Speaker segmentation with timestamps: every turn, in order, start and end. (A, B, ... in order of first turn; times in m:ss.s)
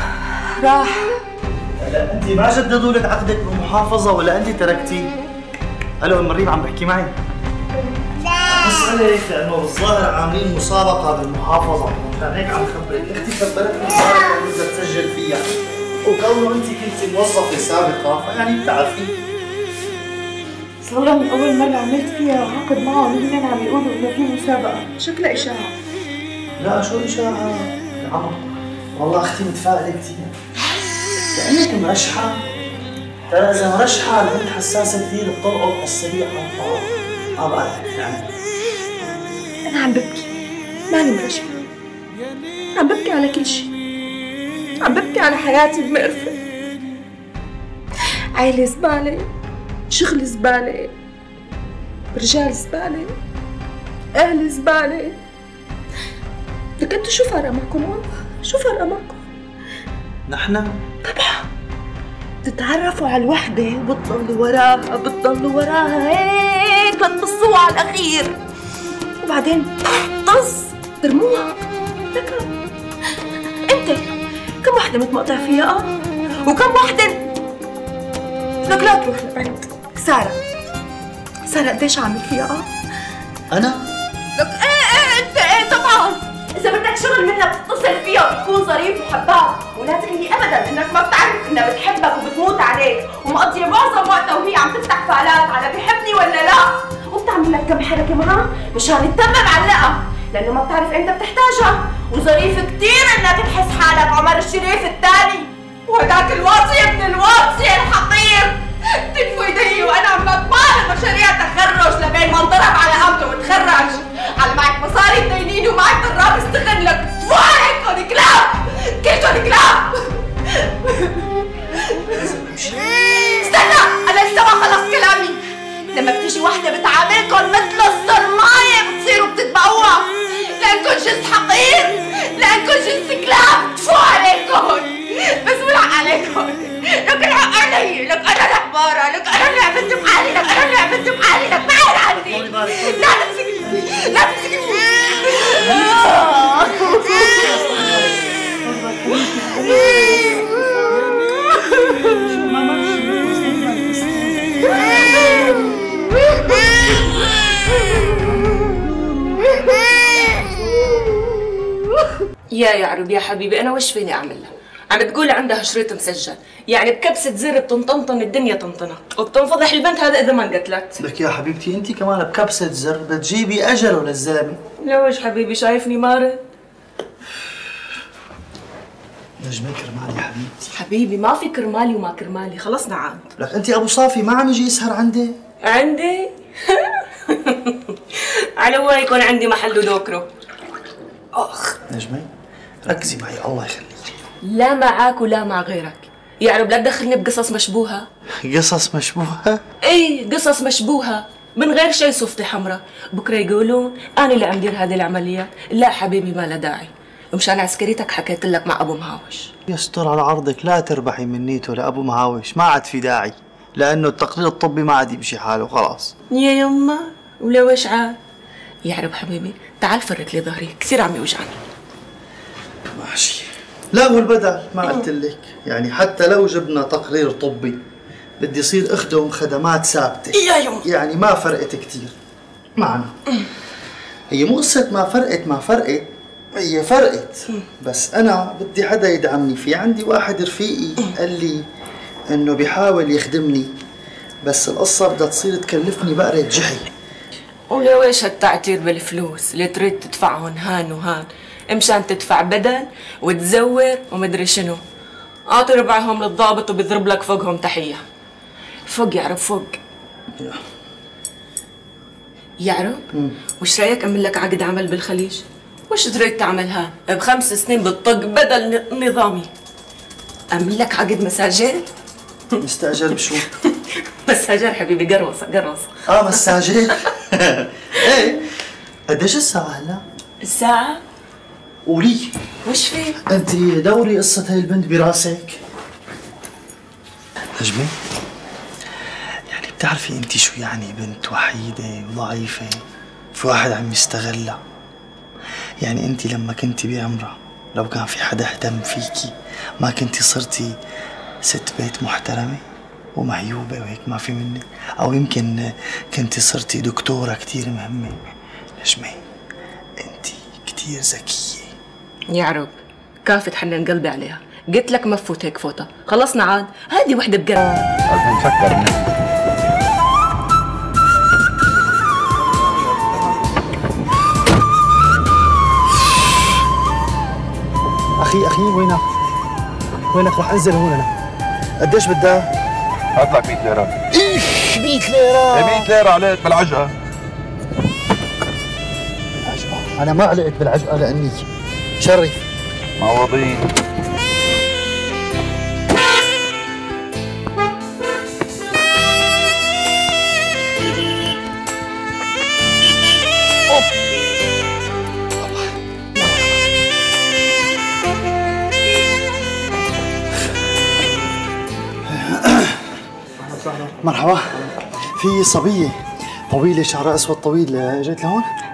0:00.6-0:01.1 A
0:01.8-0:05.1 B
0:06.0-0:07.2 B
0:08.4-0:15.5 B
0:16.0-0:19.1 B
0:20.8-0:25.7 A
0:26.6-0:28.4 B
0:29.0-0:30.3 B
0:31.3-0:32.4 B
0:33.3-0:38.3 B
0:39.7-0:40.3 A
0:40.9-0:41.6 A
0:42.8-0:43.7 A
0:44.8-0:46.4 A
0:48.4-0:49.3 A
0:49.9-0:50.9 A
0:52.2-0:53.1 A
0:54.2-0:55.2 A
0:56.8-0:59.2 A
1:00.3-1:00.8 B
1:01.1-1:01.4 A
1:02.4-1:08.4 A
1:09.2-1:11.6 A
1:12.1-1:12.5 A
1:13.7-1:14.0 A
1:14.6-1:15.9 A
1:16.5-1:17.2 A
1:18.7-1:20.4 A
1:21.5-1:22.7 A
1:23.5-1:23.8 B
1:24.4-2:01.2 A
2:02.1-2:02.8 B
2:03.2-2:05.4 A
2:05.9-2:16.9 A
2:17.1-2:26.1 C
2:22.0-2:24.2 B
2:25.6-2:30.9 B
2:32.1-2:35.5 B
2:42.5-2:51.0 C
2:51.0-2:54.6 B
2:54.8-2:56.4 C
2:59.4-3:00.7 B
3:00.7-3:03.3 C
3:03.4-3:05.4 B
3:05.6-3:10.3 C
3:11.4-3:11.8 C
3:11.9-3:12.3 B
3:12.8-3:14.2 B
3:14.4-3:18.1 C
3:18.4-3:19.6 B
3:19.8-3:29.5 C
3:29.7-3:36.1 B
3:36.3-3:38.2 C
3:38.8-3:41.6 C
3:43.0-3:47.8 B
3:48.4-3:52.2 B
3:50.3-3:50.8 C
3:52.8-3:53.1 B
3:54.3-4:01.6 B
4:02.3-4:03.7 B
4:04.4-4:06.9 B
4:07.7-4:14.8 C
4:15.5-4:18.0 C
4:18.9-4:19.8 C
4:22.6-4:23.0 C
4:23.6-4:29.5 C
4:30.5-4:31.9 C
4:32.6-4:33.5 B
4:33.6-4:37.1 C
4:36.1-4:38.5 B
4:39.1-4:40.0 B
4:40.4-4:41.0 C
4:41.8-4:42.3 B
4:42.6-4:43.2 C
4:43.3-4:45.6 B
4:47.6-4:47.9 B
4:49.5-4:52.8 B
4:53.3-4:54.6 B
4:55.8-5:00.8 B
5:01.4-5:02.6 B
5:03.2-5:08.2 B
5:08.8-5:09.2 B
5:10.0-5:11.8 B
5:12.3-5:17.8 C
5:18.1-5:19.1 D
5:28.2-5:29.0 B
5:30.1-5:31.1 B
5:31.8-5:32.5 B
5:33.2-5:33.9 D
5:34.1-5:35.9 B
5:35.5-5:36.9 D
5:39.4-5:41.5 B
5:42.0-5:42.4 B
5:43.0-5:43.7 D
5:55.4-5:56.6 B
6:02.1-6:02.8 B
6:03.6-6:06.0 B
6:06.5-6:08.5 B